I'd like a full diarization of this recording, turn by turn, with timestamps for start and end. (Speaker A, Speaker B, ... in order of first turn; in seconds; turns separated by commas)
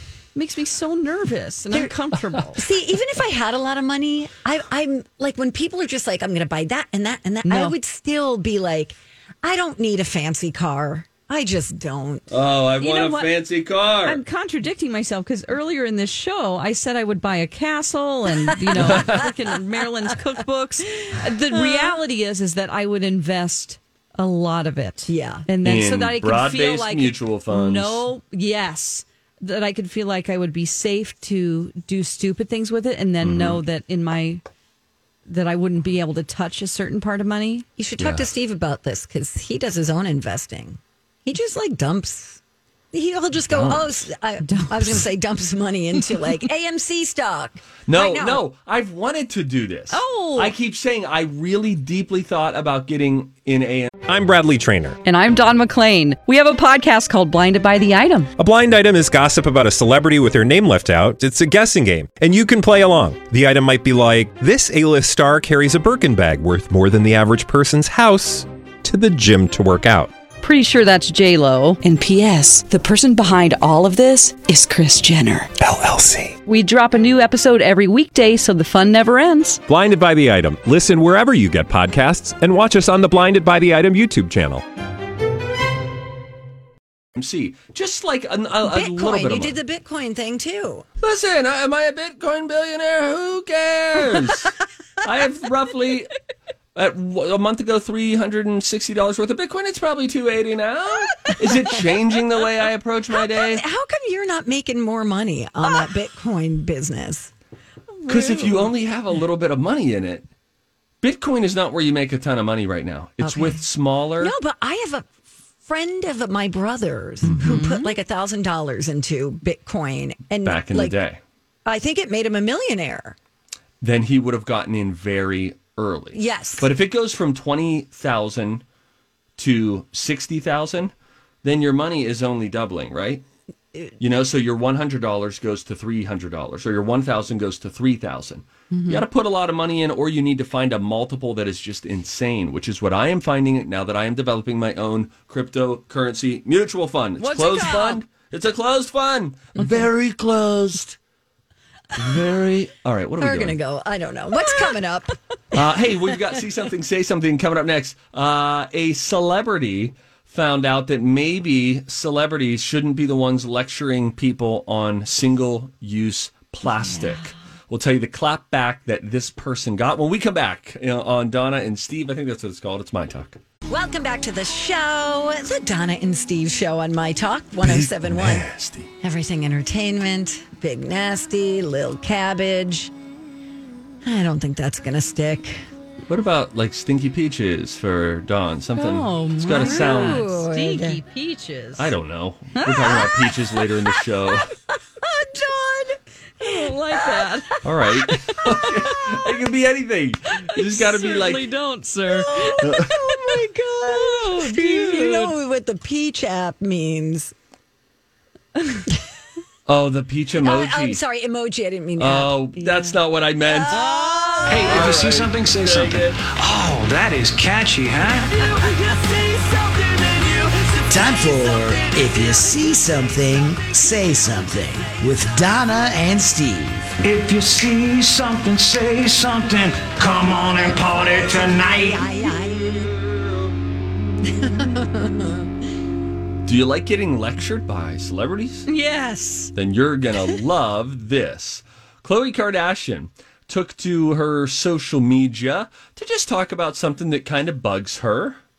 Speaker A: 0.3-2.6, Speaker B: 2.5-12.3, Speaker A: 7.4-7.7, Speaker C: 12.3-14.2, Speaker A: 12.8-13.3, Speaker A: 14.0-34.4, Speaker B: 18.7-19.2, Speaker C: 18.8-19.3, Speaker B: 21.5-21.9, Speaker B: 25.1-25.5, Speaker C: 25.6-28.0, Speaker C: 33.2-33.6, Speaker A: 35.3-37.6, Speaker B: 37.8-42.4, Speaker C: 38.0-38.2, Speaker B: 42.9-48.4, Speaker C: 43.5-44.1, Speaker A: 44.4-45.0, Speaker C: 47.9-53.9, Speaker A: 49.9-50.5, Speaker D: 54.0-55.0, Speaker A: 55.0-58.3, Speaker D: 58.4-70.1, Speaker A: 70.4-75.5, Speaker D: 75.6-76.3, Speaker A: 76.5-79.6, Speaker D: 79.7-84.6, Speaker C: 87.1-89.5, Speaker B: 88.6-90.8, Speaker C: 91.0-96.1, Speaker C: 96.7-103.6, Speaker B: 103.1-107.3, Speaker A: 107.9-108.7, Speaker C: 108.1-110.2, Speaker C: 111.0-114.3, Speaker B: 113.2-113.6, Speaker B: 114.2-115.1, Speaker B: 115.6-120.9, Speaker C: 117.2-117.5, Speaker A: 117.4-117.9, Speaker C: 120.4-121.2, Speaker B: 121.6-123.2, Speaker C: 123.8-128.6, Speaker B: 126.1-126.7, Speaker C: 129.4-130.9, Speaker C: 131.4-133.2, Speaker C: 134.0-151.0, Speaker A: 138.7-139.0, Speaker A: 147.2-148.0, Speaker C: 151.9-153.6, Speaker B: 153.2-155.1, Speaker A: 154.4-154.7, Speaker C: 155.5-173.4, Speaker B: 166.8-167.2, Speaker B: 173.7-178.5, Speaker C: 177.6-178.9, Speaker B: 179.0-182.9, Speaker B: 184.0-185.6, Speaker C: 186.1-190.3, Speaker A: 188.8-191.9, Speaker B: 189.5-191.0, Speaker C: 191.8-194.5, Speaker A: 192.5-193.3, Speaker B: 195.0-197.6, Speaker A: 196.4-199.1, Speaker C: 197.6-201.5, Speaker A: 200.3-205.3, Speaker B: 202.1-207.3, Speaker C: 202.6-202.9, Speaker A: 208.6-208.9, Speaker C: 209.7-211.0, Speaker B: 210.4-212.3, Speaker C: 212.0-213.8, Speaker A: 212.6-213.0, Speaker B: 213.4-214.9, Speaker A: 213.7-214.7, Speaker E: 214.5-218.3, Speaker C: 214.7-216.2, Speaker B: 218.4-219.3, Speaker F: 220.8-226.9, Speaker B: 221.2-221.4, Speaker E: 227.0-232.0, Speaker B: 231.6-232.9, Speaker B: 234.2-235.5, Speaker C: 236.4-238.7, Speaker A: 238.7-239.5, Speaker C: 239.5-248.4